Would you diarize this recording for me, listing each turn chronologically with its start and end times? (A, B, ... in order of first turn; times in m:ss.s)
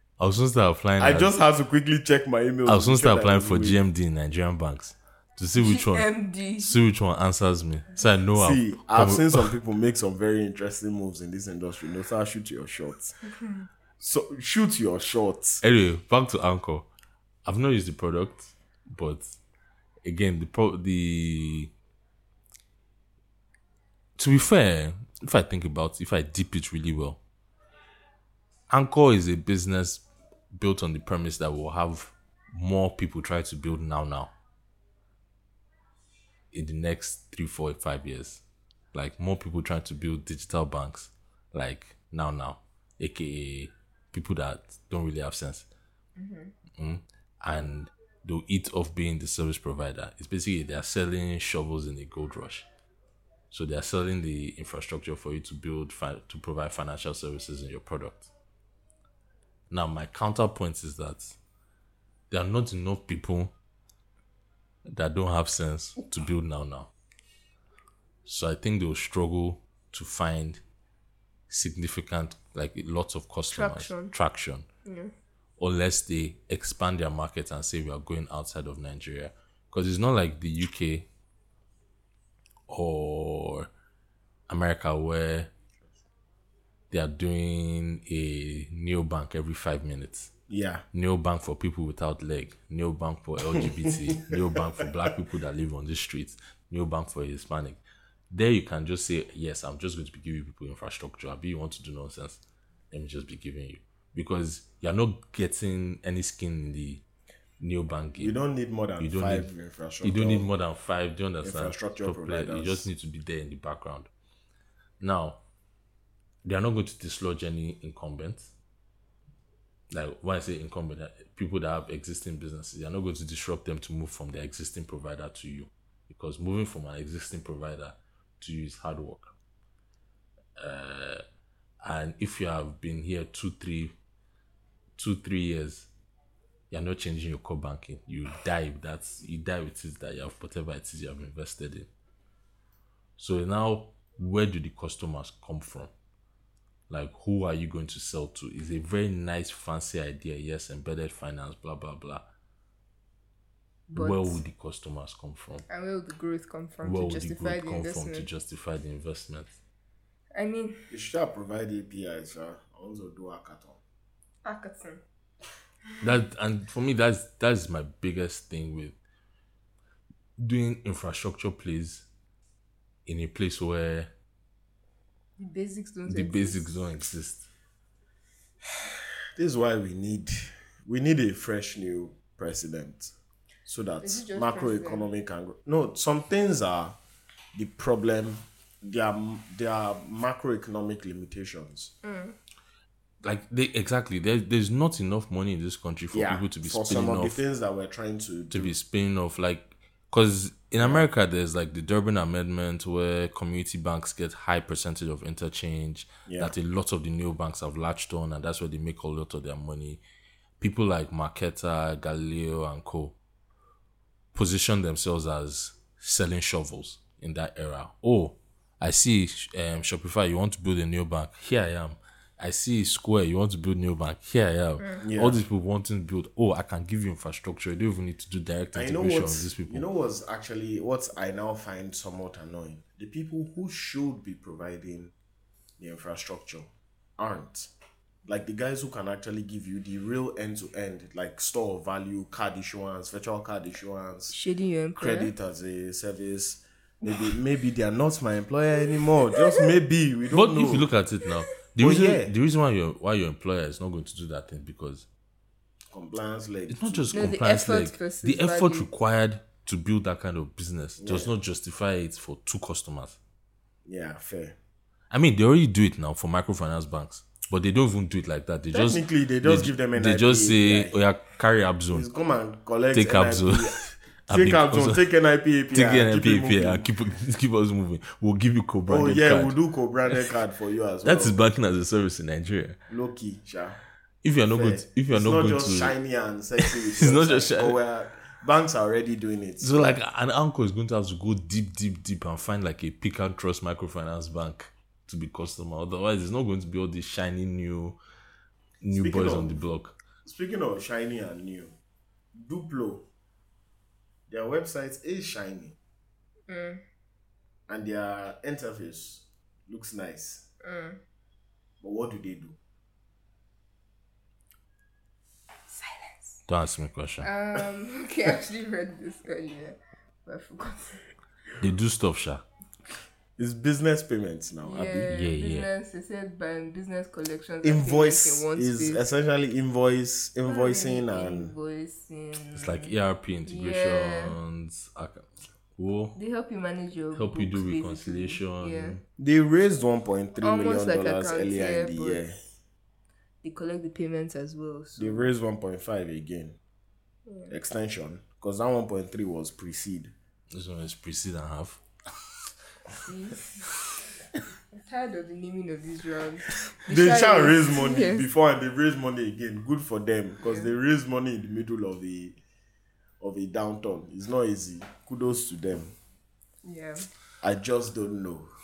0:00.2-0:01.3 A
0:01.0-0:03.8 B
0:02.6-0:09.5 A
0:05.6-0:06.7 C
0:08.3-0:13.1 B
0:14.0-0:15.6 B
0:15.6-0:16.9 A
0:17.4-0:19.3 A
0:20.0-0:21.7 A
0:24.2-0:27.2 A
0:28.7-0:34.3 A
0:36.5-0:38.4 A
0:38.9-0:45.7 A
0:46.2-0:46.5 C
0:46.8-0:52.6 A
0:53.5-0:58.3 A
0:59.7-1:01.4 A
1:02.3-1:03.5 A
1:04.8-1:06.9 A
1:08.2-1:10.6 A
1:11.5-1:14.6 A
1:13.5-1:14.1 C
1:14.8-1:15.1 C
1:15.6-1:21.0 A
1:22.7-1:23.7 A
1:24.5-1:25.5 A
1:26.9-1:30.3 A
1:30.5-1:30.8 B
1:30.9-1:37.8 A
1:33.5-1:34.6 B
1:38.3-1:42.4 A
1:42.9-1:47.0 A
1:47.6-1:48.3 A
1:48.2-1:50.5 B
1:49.0-1:49.5 A
1:50.0-1:54.1 A
1:51.4-1:52.9 B
1:55.0-1:55.4 A
1:56.4-1:58.5 A
1:59.9-2:09.3 A
2:10.6-2:11.2 A
2:11.8-2:13.9 A
2:15.0-2:15.9 A
2:16.7-2:21.9 A
2:23.2-2:25.9 A
2:26.9-2:32.2 A
2:33.9-2:34.4 C
2:33.9-2:35.6 A
2:35.7-2:38.3 C
2:36.8-2:39.5 A
2:40.3-2:40.9 C
2:40.9-2:43.8 B
2:44.4-2:45.0 C
2:46.0-2:48.9 A
2:50.4-2:52.1 A
2:53.0-2:54.1 A
2:55.4-2:56.8 C
2:56.1-2:57.5 A
2:59.4-3:03.1 B
3:03.6-3:07.0 B
3:04.0-3:05.1 C
3:07.5-3:11.9 B
3:12.0-3:12.3 C
3:13.2-3:17.4 A
3:16.1-3:18.7 B
3:18.5-3:30.0 A
3:20.8-3:21.1 B
3:26.2-3:26.5 B
3:30.6-3:33.2 A
3:34.3-3:49.8 A
3:45.0-3:45.4 B
3:48.7-3:55.1 B
3:55.8-3:57.7 B
3:58.2-4:04.3 B
4:04.3-4:05.3 C
4:05.0-4:10.9 B
4:09.3-4:09.6 C
4:10.3-4:15.0 A
4:11.8-4:12.3 B
4:15.9-4:17.2 B
4:16.7-4:23.2 A
4:17.1-4:18.9 C
4:21.0-4:21.3 B
4:23.8-4:24.6 B
4:25.1-4:32.1 A
4:28.7-4:30.9 B
4:31.9-4:36.9 B
4:32.9-4:35.0 A
4:35.7-4:39.5 A
4:38.9-4:41.4 B
4:41.0-4:42.8 A
4:42.9-4:43.8 B
4:44.2-4:45.9 A
4:44.5-4:49.9 B
4:46.6-4:47.8 A
4:49.6-4:58.0 A
4:58.8-5:00.0 A
4:58.9-4:59.5 B
5:00.2-5:01.7 B
5:02.4-5:03.0 B
5:04.3-5:05.8 B
5:06.5-5:06.8 C
5:07.7-5:10.4 B
5:10.6-5:11.0 C
5:11.8-5:12.6 B
5:15.7-5:16.4 C
5:16.5-5:17.3 A
5:17.2-5:21.0 C
5:21.6-5:22.4 A
5:23.4-5:25.1 B
5:24.6-5:29.0 C
5:25.1-5:25.7 A
5:27.6-5:31.5 B
5:30.4-5:32.9 C
5:32.5-5:36.2 A
5:33.5-5:34.4 C
5:36.1-5:39.0 C
5:37.1-5:39.0 A
5:39.2-5:42.4 B
5:40.4-5:42.2 C
5:43.4-5:45.3 C
5:45.0-5:46.6 B
5:47.5-5:50.1 B
5:50.5-5:51.8 A
5:53.0-5:53.6 C
5:54.8-5:58.3 C
5:56.9-6:02.4 B
6:00.4-6:00.7 C
6:03.2-6:05.9 B
6:06.6-6:07.0 C
6:07.4-6:08.5 B